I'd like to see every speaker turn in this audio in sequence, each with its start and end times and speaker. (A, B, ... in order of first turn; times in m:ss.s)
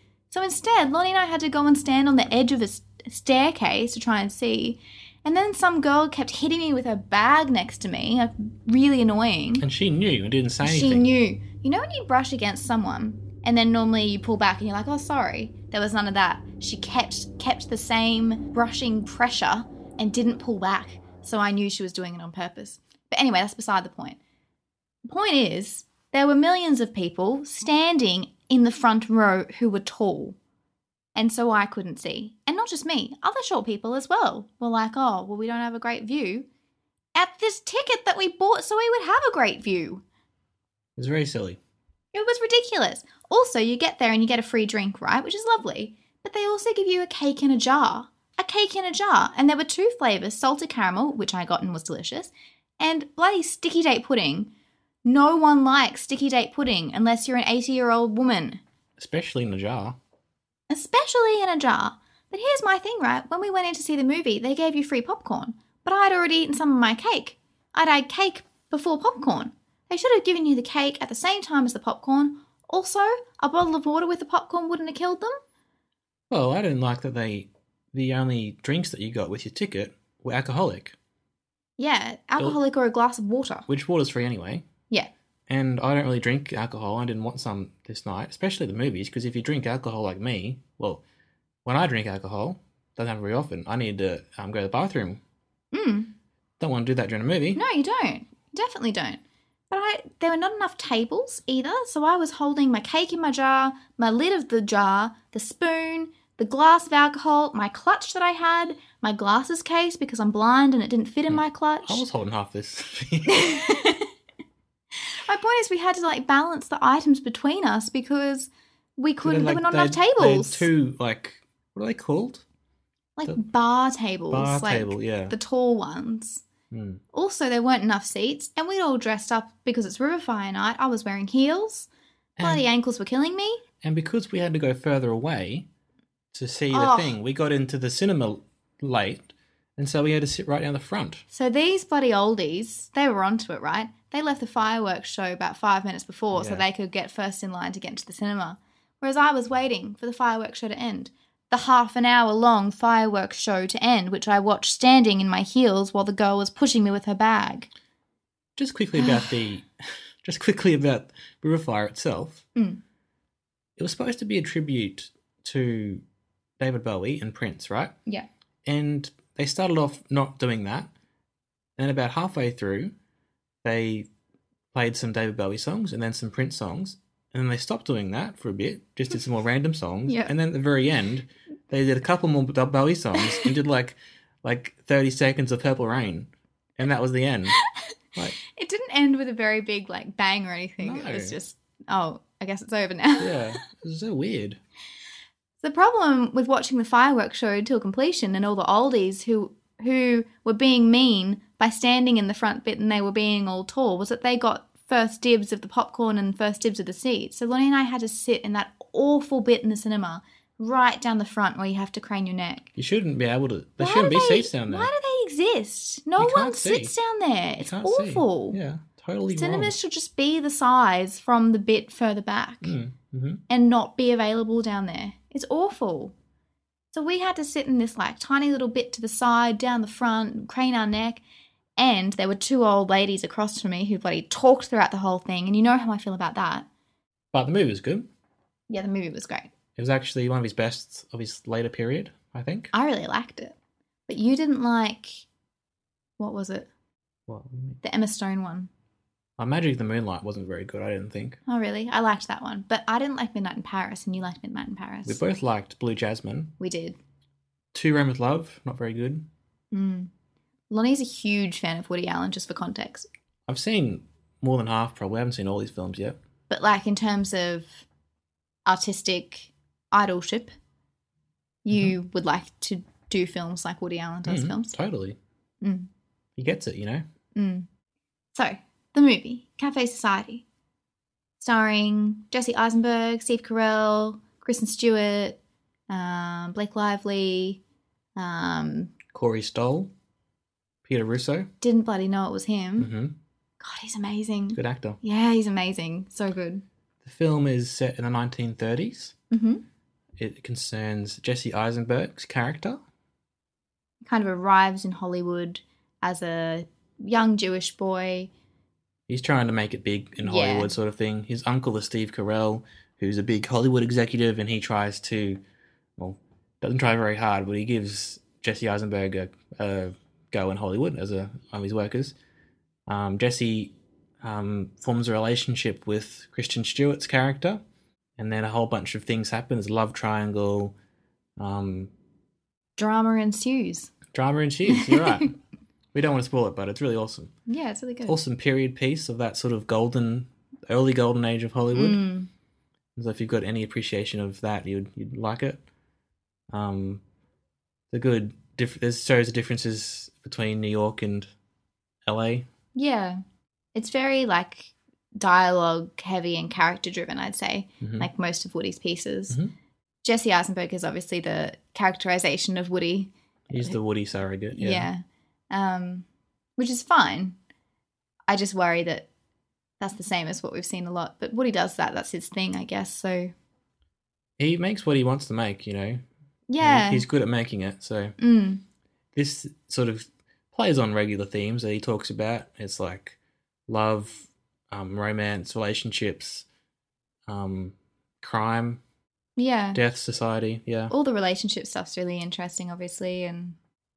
0:00.3-0:09.6 A
0:09.6-0:11.1 B
0:10.6-0:24.2 A
0:25.0-0:30.4 A
0:31.1-0:36.5 A
0:37.1-0:40.0 A
0:41.0-0:41.6 B
0:42.1-0:54.5 A
0:55.0-0:58.6 A
0:59.0-1:00.0 B
1:00.7-1:15.4 A
1:16.3-1:21.0 B
1:21.8-1:23.7 A
1:23.7-1:24.6 B
1:25.5-1:31.0 B
1:31.6-1:35.2 B
1:35.7-1:36.1 A
1:36.6-1:37.6 B
1:37.5-1:52.0 A
1:51.3-1:53.4 B
1:53.3-1:54.1 A
1:55.2-2:00.7 A
1:59.2-2:02.4 B
2:03.2-2:06.4 A
2:04.3-2:05.3 B
2:06.7-2:07.0 B
2:07.1-2:11.9 A
2:12.4-2:12.6 B
2:12.4-2:13.6 A
2:13.8-2:15.7 B
2:16.3-2:21.2 B
2:16.7-2:17.2 A
2:21.3-2:37.7 A
2:26.3-2:26.6 B
2:38.6-2:39.7 B
2:39.0-2:39.4 A
2:40.2-2:42.4 B
2:42.6-2:42.8 A
2:43.8-2:46.0 B
2:46.6-2:47.9 B
2:48.6-2:50.9 B
2:51.8-2:52.9 B
2:53.6-2:54.1 B
2:54.7-3:07.6 B
3:00.1-3:00.3 A
3:08.4-3:13.5 A
3:10.8-3:11.4 B
3:13.2-3:14.6 B
3:15.6-3:32.7 A
3:32.8-3:34.9 B
3:33.8-3:38.6 A
3:36.2-3:36.9 B
3:37.6-3:39.7 B
3:39.3-3:42.7 A
3:42.6-3:43.4 B
3:43.5-3:46.1 A
3:46.9-3:51.2 A
3:51.8-3:56.6 A
3:57.3-3:58.1 B
3:58.7-3:59.5 A
3:59.8-4:02.7 B
4:02.7-4:03.5 A
4:04.1-4:05.2 A
4:06.2-4:06.7 A
4:07.3-4:07.8 B
4:07.8-4:08.7 A
4:09.4-4:11.4 B
4:11.5-4:15.2 A
4:15.0-4:16.6 B
4:16.6-4:17.0 A
4:17.7-4:19.3 B
4:19.7-4:20.1 A
4:20.7-4:23.1 A
4:23.5-4:26.2 B
4:26.5-4:27.8 A
4:28.6-4:30.5 A
4:31.6-4:34.7 A
4:34.2-4:35.2 B
4:35.6-4:35.9 A
4:36.4-4:37.0 B
4:37.3-4:37.7 A
4:38.3-4:40.4 A
4:41.4-4:45.4 A
4:45.9-4:47.6 A
4:48.2-4:48.9 A
4:49.1-4:49.9 B
4:50.8-4:51.5 B
4:51.6-4:52.9 A
4:52.8-4:53.1 B
4:53.6-4:56.6 A
4:54.5-4:55.0 B
4:57.0-4:59.1 B
4:59.3-4:59.6 A
5:00.2-5:02.8 B
5:04.0-5:08.3 A
5:09.1-5:15.4 B
5:10.2-5:10.7 A
5:16.0-5:22.1 B
5:22.9-5:27.6 B
5:28.2-5:30.7 B
5:31.4-5:31.9 B
5:32.8-5:33.9 A
5:34.1-5:35.4 B
5:34.8-5:35.2 A
5:35.9-5:37.3 B
5:37.5-5:38.2 A
5:38.0-5:42.0 B
5:41.7-5:42.3 A
5:43.0-5:45.6 B
5:46.5-5:47.0 B
5:47.9-5:51.3 B
5:52.0-5:52.5 B
5:52.7-5:53.2 A
5:53.7-5:59.4 A
5:57.8-5:58.1 B
6:00.0-6:03.7 A
6:03.5-6:04.9 B
6:04.5-6:06.0 A
6:06.6-6:07.4 A
6:08.3-6:09.1 A
6:09.8-6:13.3 A
6:14.4-6:16.0 B
6:16.5-6:17.0 A
6:16.6-6:18.2 B
6:18.2-6:18.6 A
6:19.1-6:23.2 B
6:23.7-6:26.4 B
6:27.3-6:28.8 B
6:29.4-6:29.8 A
6:29.7-6:30.9 B
6:30.9-6:33.6 A